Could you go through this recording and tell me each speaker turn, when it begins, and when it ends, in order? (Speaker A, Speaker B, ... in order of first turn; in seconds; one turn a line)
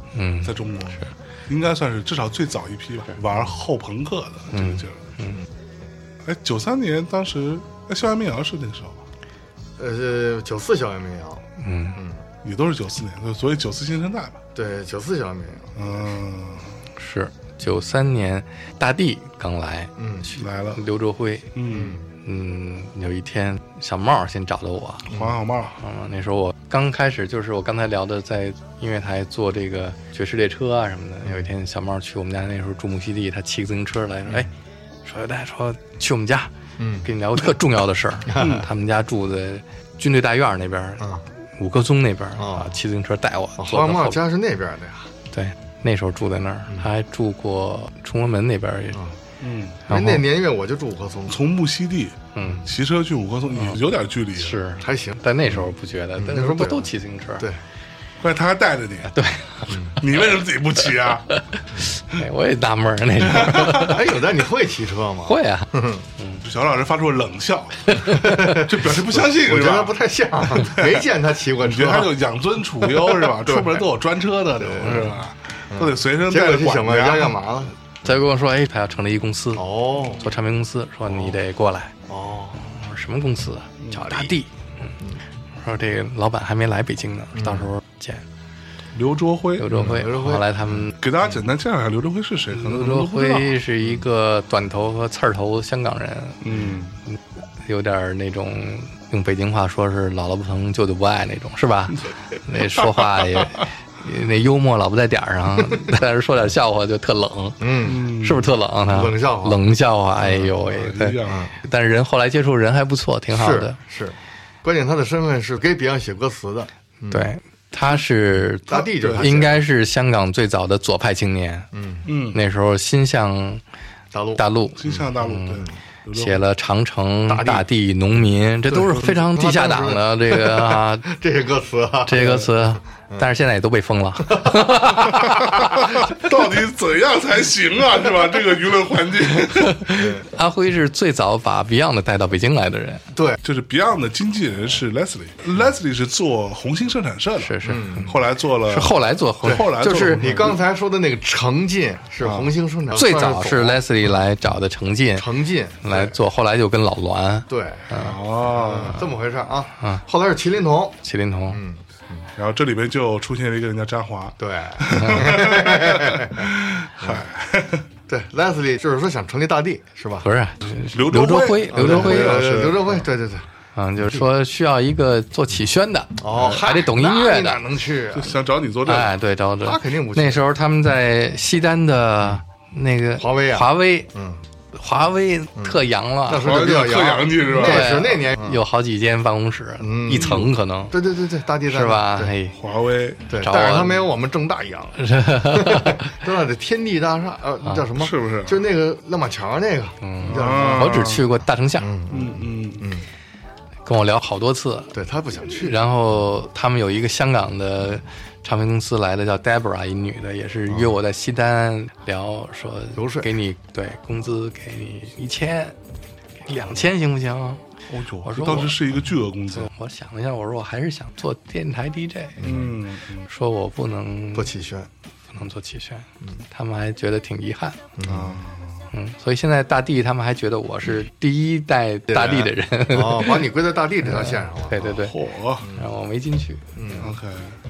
Speaker A: 0.1-0.6
Speaker B: 0.4-5.0
Speaker A: 4.5-5.4
Speaker B: 6.2-9.0
Speaker C: 9.8-12.2
Speaker A: 11.6-12.0
Speaker B: 12.4-14.4
Speaker C: 14.5-16.1
Speaker B: 15.8-16.8
Speaker A: 17.0-21.5
Speaker C: 20.0-20.3
Speaker B: 20.3-20.8
Speaker B: 21.5-22.0
Speaker C: 21.6-22.1
Speaker A: 22.2-25.1
Speaker B: 25.1-25.8
Speaker C: 25.1-25.4
Speaker A: 25.8-34.5
Speaker A: 35.0-36.5
Speaker C: 36.8-37.1
Speaker A: 37.0-41.0
Speaker C: 38.3-38.6
Speaker B: 38.4-38.7
Speaker A: 41.6-44.2
Speaker C: 42.4-42.8
Speaker C: 43.6-45.1
Speaker A: 45.3-49.0
Speaker B: 49.4-49.8
Speaker C: 49.9-51.4
Speaker A: 49.9-50.2
Speaker B: 51.3-54.6
Speaker A: 52.3-52.6
Speaker A: 53.5-53.8
Speaker A: 54.4-57.5
Speaker C: 54.8-57.6
Speaker B: 58.2-59.1
Speaker A: 59.1-60.0
Speaker C: 59.7-60.0
Speaker B: 60.0-61.2
Speaker A: 61.3-64.0
Speaker B: 63.2-63.9
Speaker C: 63.4-66.0
Speaker A: 65.3-66.4
Speaker B: 66.4-71.1
Speaker A: 68.0-68.2
Speaker C: 68.0-72.1
Speaker B: 71.6-77.4
Speaker C: 72.8-73.8
Speaker C: 74.5-75.2
Speaker C: 75.7-77.7
Speaker A: 78.0-79.6
Speaker C: 79.5-80.2
Speaker A: 80.2-81.9
Speaker C: 82.1-82.6
Speaker A: 82.6-84.5
Speaker C: 84.0-84.3
Speaker A: 85.6-88.2
Speaker C: 87.3-87.7
Speaker B: 88.9-90.1
Speaker A: 89.6-91.0
Speaker C: 89.7-90.5
Speaker B: 90.9-93.6
Speaker A: 92.5-96.4
Speaker B: 96.4-97.0
Speaker A: 97.1-113.8
Speaker B: 102.7-103.6
Speaker C: 107.6-108.0
Speaker B: 107.8-108.5
Speaker C: 108.9-109.6
Speaker C: 110.2-110.5
Speaker B: 110.5-111.5
Speaker C: 111.2-111.5
Speaker C: 113.3-117.3
Speaker A: 117.1-121.7
Speaker C: 118.7-119.6
Speaker B: 118.8-119.3
Speaker C: 121.7-122.1
Speaker B: 122.0-122.4
Speaker A: 122.3-123.6
Speaker C: 124.1-125.8
Speaker A: 124.4-125.6
Speaker B: 124.8-126.4
Speaker A: 126.1-131.1
Speaker C: 127.3-127.7
Speaker B: 128.7-129.0
Speaker C: 128.8-133.3
Speaker A: 132.1-135.6
Speaker C: 134.3-135.3
Speaker B: 135.1-139.9
Speaker A: 139.5-143.0
Speaker C: 139.9-140.2
Speaker C: 143.1-143.4
Speaker B: 143.4-150.6
Speaker A: 147.4-148.1
Speaker C: 147.6-148.2
Speaker A: 148.7-150.5
Speaker C: 149.4-154.1
Speaker B: 152.2-152.5
Speaker A: 152.9-155.3
Speaker C: 155.2-156.2
Speaker A: 155.8-158.2
Speaker C: 157.5-161.0
Speaker B: 157.9-159.0
Speaker A: 161.0-161.6
Speaker C: 161.5-162.3
Speaker B: 162.3-167.8
Speaker C: 164.4-167.2
Speaker C: 168.1-170.3
Speaker A: 170.2-172.4
Speaker B: 170.8-173.0
Speaker C: 171.7-173.5
Speaker A: 173.7-177.6
Speaker C: 174.0-174.2
Speaker C: 176.2-178.3
Speaker B: 178.1-179.1
Speaker A: 178.8-184.1
Speaker C: 179.6-180.4
Speaker C: 183.2-184.4
Speaker A: 184.7-186.5
Speaker C: 185.6-188.6
Speaker B: 186.4-188.0
Speaker A: 187.5-190.9
Speaker C: 189.8-192.3
Speaker B: 190.1-190.5
Speaker A: 191.7-192.5
Speaker B: 192.5-193.2
Speaker C: 193.3-201.1
Speaker A: 193.4-194.1
Speaker A: 195.0-196.1
Speaker B: 197.9-198.6
Speaker A: 200.0-201.9
Speaker B: 200.2-201.3
Speaker C: 201.8-203.0
Speaker B: 202.1-202.9
Speaker A: 203.8-204.9
Speaker C: 204.9-205.8
Speaker A: 205.5-215.7
Speaker C: 210.7-210.9
Speaker C: 212.9-213.3
Speaker A: 216.5-217.6
Speaker B: 217.9-219.7
Speaker A: 218.2-218.8
Speaker A: 219.5-222.4
Speaker C: 222.4-222.7
Speaker B: 222.4-223.3
Speaker A: 223.3-224.5
Speaker C: 224.3-224.9
Speaker A: 225.3-227.8
Speaker C: 228.0-228.4
Speaker B: 228.0-228.9
Speaker A: 228.9-233.5
Speaker C: 232.1-235.0
Speaker A: 234.1-235.2
Speaker B: 234.9-235.7
Speaker C: 235.6-235.9
Speaker A: 235.7-236.6
Speaker C: 236.8-237.1
Speaker B: 236.9-237.6